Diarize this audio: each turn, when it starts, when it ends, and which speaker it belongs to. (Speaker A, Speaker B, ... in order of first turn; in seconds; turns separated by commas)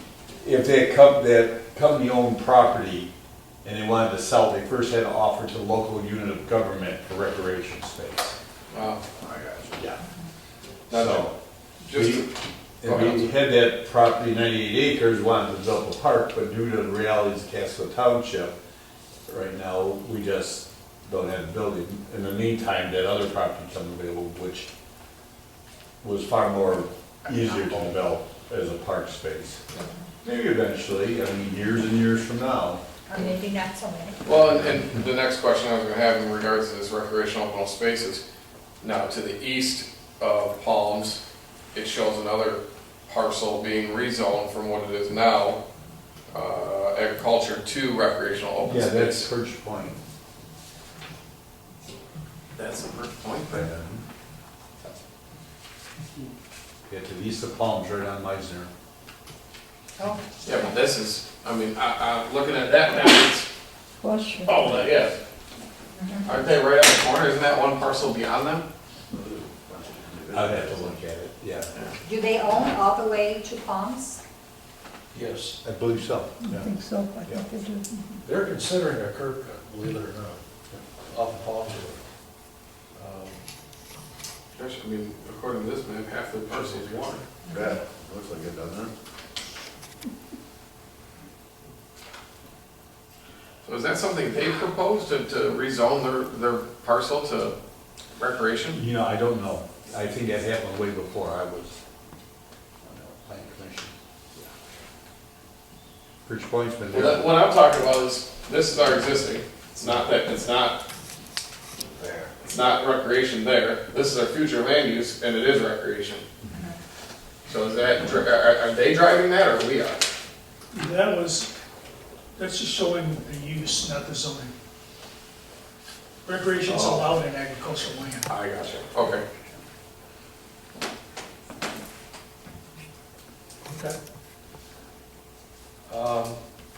Speaker A: 0.4-3.1, Speaker A: 3.6-8.3, Speaker B: 8.7-9.0, Speaker C: 9.3-9.6, Speaker B: 10.9-11.3, Speaker A: 10.9-11.3, Speaker B: 11.8-13.3, Speaker A: 11.9-12.2, Speaker A: 12.8-18.6, Speaker A: 19.3-24.7, Speaker A: 26.0-29.6, Speaker A: 30.2-32.8, Speaker D: 33.1-34.1, Speaker B: 34.2-38.2, Speaker A: 34.4-34.9, Speaker B: 38.8-41.2, Speaker B: 41.7-45.6, Speaker B: 46.3-49.3, Speaker A: 48.6-50.0, Speaker B: 52.5-53.7, Speaker A: 53.5-54.0, Speaker A: 56.9-58.7, Speaker B: 60.4-63.5, Speaker E: 64.0-64.8, Speaker B: 64.4-65.2, Speaker D: 66.0-66.3, Speaker B: 66.2-68.7, Speaker C: 69.1-70.9, Speaker A: 70.3-71.7, Speaker D: 72.0-74.2, Speaker F: 75.1-75.6, Speaker A: 75.6-76.7, Speaker E: 76.4-78.2, Speaker F: 78.2-80.4, Speaker F: 81.1-82.0, Speaker F: 83.0-83.4, Speaker B: 84.5-87.2, Speaker C: 87.5-88.9, Speaker B: 93.6-97.5, Speaker B: 98.2-98.8, Speaker A: 98.7-101.8, Speaker A: 102.8-104.5, Speaker A: 106.2-107.3, Speaker B: 106.9-110.8, Speaker B: 112.4-116.2, Speaker B: 117.5-120.0, Speaker G: 120.7-121.5, Speaker G: 122.3-124.5, Speaker G: 126.2-128.3, Speaker B: 128.3-129.2, Speaker F: 133.7-134.0, Speaker F: 135.9-136.4